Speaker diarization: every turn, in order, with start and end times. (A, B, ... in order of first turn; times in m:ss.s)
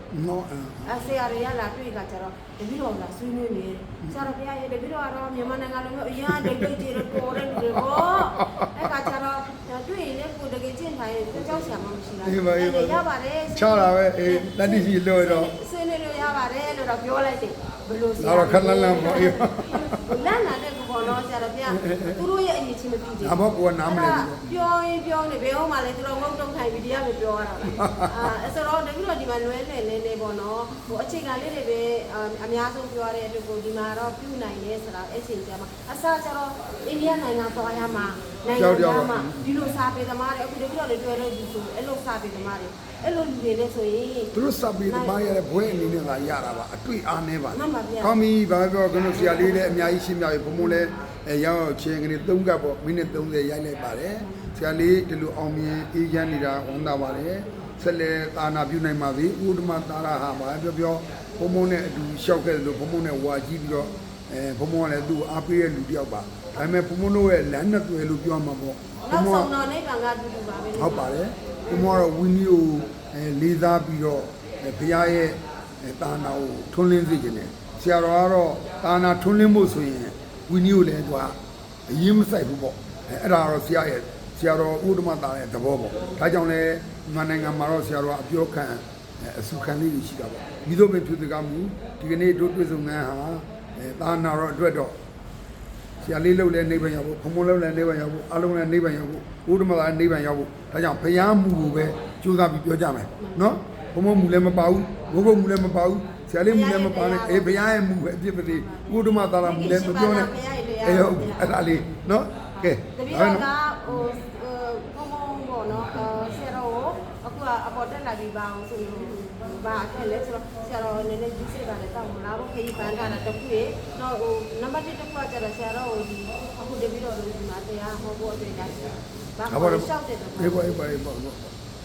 0:00.1-0:01.0 A
0:00.8-0:44.3 B
0:04.0-0:04.3 A
0:06.3-0:09.1 A
0:12.2-0:15.5 A
0:18.2-0:20.0 A
0:21.7-0:22.2 A
0:23.2-0:24.5 A
0:27.7-0:28.3 A
0:38.5-0:39.6 A
0:44.3-1:09.5 A
0:44.9-0:45.1 B
0:47.5-0:48.2 B
0:49.1-0:49.9 B
0:54.2-0:54.5 B
1:09.1-1:12.0 B
1:10.7-1:21.4 A
1:21.9-1:34.9 A
1:36.0-1:53.5 A
1:43.2-1:43.6 B
1:46.4-1:47.7 B
1:48.5-1:51.6 B
1:52.6-2:10.8 B
2:09.5-2:11.5 A